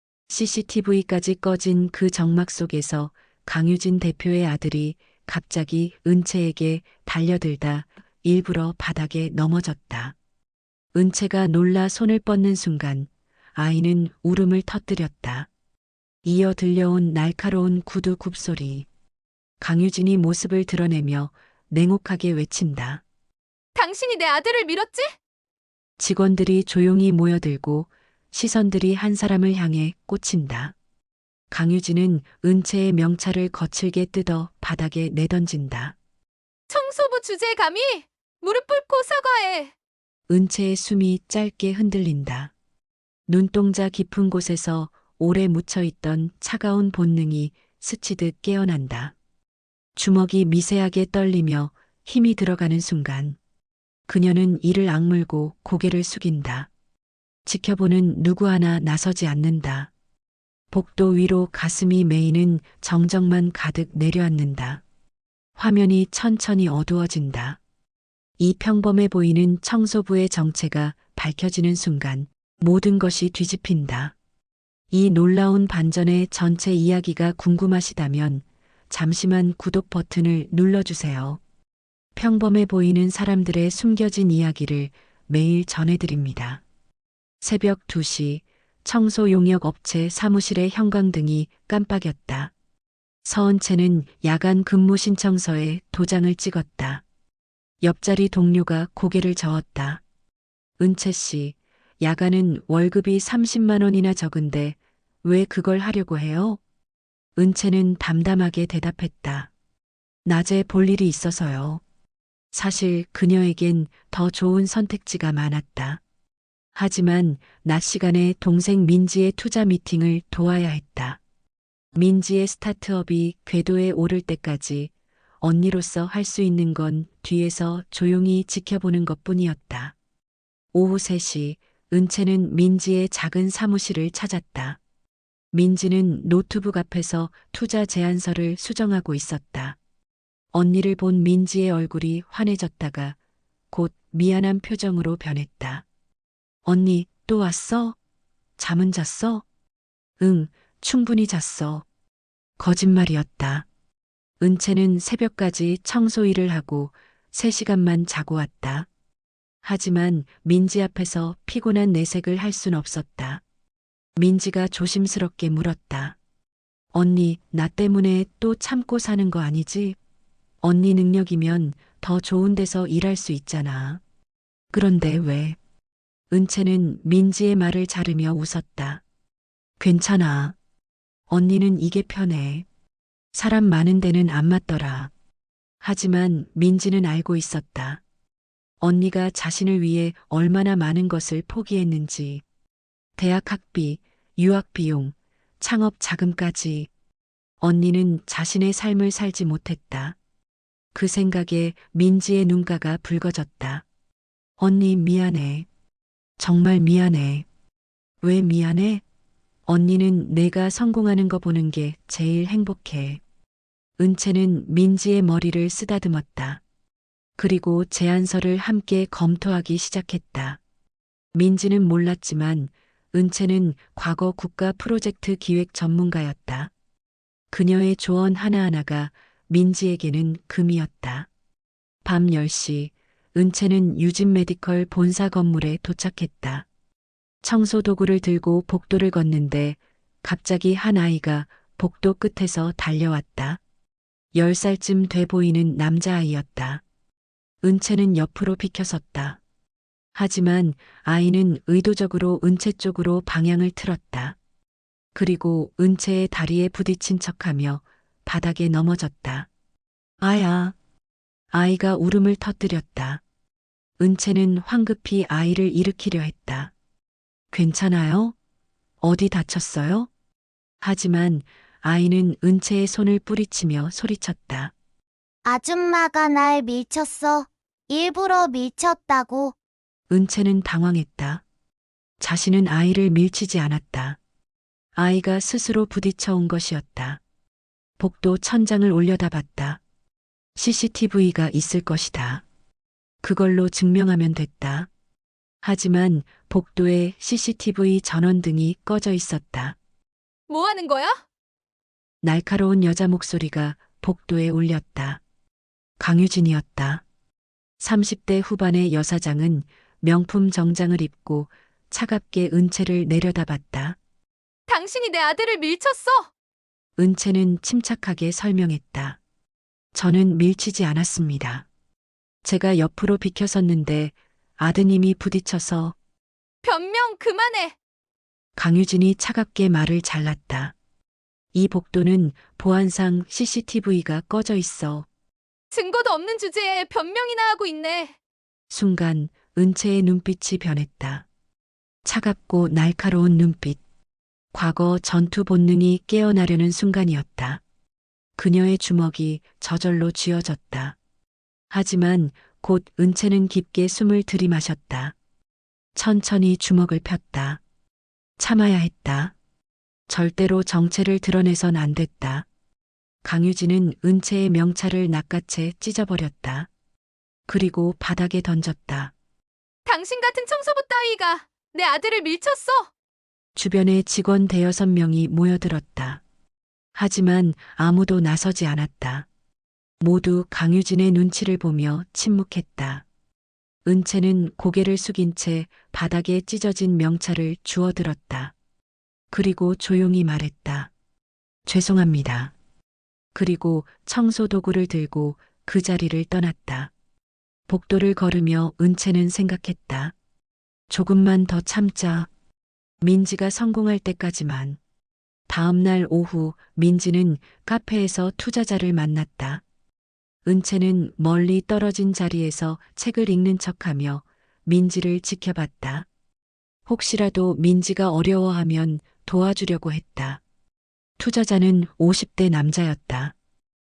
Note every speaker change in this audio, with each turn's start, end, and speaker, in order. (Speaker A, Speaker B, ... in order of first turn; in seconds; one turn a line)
Speaker A: 0.3-10.2
Speaker A: 10.9-15.5
Speaker A: 16.2-18.9
Speaker A: 19.6-23.0
Speaker B: 23.8-25.1
Speaker A: 26.0-30.8
Speaker A: 31.5-36.0
Speaker B: 36.7-39.7
Speaker A: 40.3-42.5
Speaker A: 43.3-49.1
Speaker A: 50.0-53.4
Speaker A: 54.1-56.7
Speaker A: 57.5-59.9
Speaker A: 60.7-64.8
Speaker A: 65.6-67.6
Speaker A: 68.4-74.1
Speaker A: 74.9-81.4
Speaker A: 82.2-86.6
Speaker A: 87.4-92.5
Speaker A: 93.2-97.0
Speaker A: 97.8-100.0
Speaker A: 100.8-106.6
Speaker A: 107.4-109.5
Speaker A: 110.3-111.8
Speaker A: 112.5-116.0
Speaker A: 116.8-121.2
Speaker A: 122.0-129.9
Speaker A: 130.7-134.8
Speaker A: 135.5-139.8
Speaker A: 140.5-143.2
Speaker A: 143.7-145.8
Speaker A: 146.7-148.0
Speaker A: 148.6-149.4
Speaker A: 150.2-151.8
Speaker A: 152.6-153.7
Speaker A: 154.4-158.9
Speaker A: 159.6-163.4
Speaker A: 164.2-166.2
Speaker A: 166.9-170.0
Speaker A: 170.6-174.0
Speaker A: 174.7-175.6
Speaker A: 176.3-179.0
Speaker A: 179.8-180.6
Speaker A: 181.3-182.7
Speaker A: 183.3-185.1
Speaker A: 185.8-188.0
Speaker A: 188.8-192.4
Speaker A: 193.2-196.9
Speaker A: 197.6-200.2
Speaker A: 200.9-203.8
Speaker A: 204.6-205.7
Speaker A: 206.4-207.5
Speaker A: 208.2-209.0
Speaker A: 209.7-213.2
Speaker A: 214.0-216.6
Speaker A: 217.4-220.6
Speaker A: 221.3-226.7
Speaker A: 227.5-231.3
Speaker A: 232.1-236.7
Speaker A: 237.4-243.6
Speaker A: 244.3-246.8
Speaker A: 247.6-249.4
Speaker A: 250.2-254.4
Speaker A: 255.2-259.5
Speaker A: 260.2-260.8
Speaker A: 261.5-263.2
Speaker A: 264.0-266.7
Speaker A: 267.5-268.4
Speaker A: 269.0-270.1
Speaker A: 270.8-274.7
Speaker C: 275.5-279.6
Speaker A: 280.1-281.4
Speaker A: 282.2-284.2
Speaker A: 284.9-287.2
Speaker A: 288.0-289.8
Speaker A: 290.6-292.4
Speaker A: 293.2-294.9
Speaker A: 295.6-299.8
Speaker B: 300.5-301.2
Speaker A: 302.2-305.2
Speaker A: 306.0-307.0
Speaker A: 307.8-314.0
Speaker B: 314.7-316.3
Speaker A: 317.0-319.2
Speaker A: 319.9-321.7
Speaker A: 322.4-326.0
Speaker B: 326.6-327.8
Speaker A: 328.6-330.8
Speaker A: 331.5-335.1
Speaker B: 335.7-338.2
Speaker A: 338.7-341.3
Speaker A: 342.1-343.8
Speaker A: 344.5-347.6
Speaker A: 348.4-351.0
Speaker A: 351.7-355.1
Speaker A: 355.9-357.6
Speaker A: 358.4-359.3
Speaker A: 360.1-362.5
Speaker A: 363.2-366.7
Speaker A: 367.5-369.1
Speaker B: 369.9-372.9
Speaker A: 373.6-376.2
Speaker A: 376.9-379.3
Speaker A: 380.0-383.1
Speaker A: 383.9-388.5
Speaker A: 389.3-390.9
Speaker A: 391.7-392.5
Speaker A: 393.3-396.9
Speaker A: 397.7-400.1
Speaker A: 400.9-402.3
Speaker A: 403.0-404.8
Speaker A: 405.5-409.6
Speaker A: 410.4-416.1
Speaker A: 416.9-420.4
Speaker A: 421.2-423.4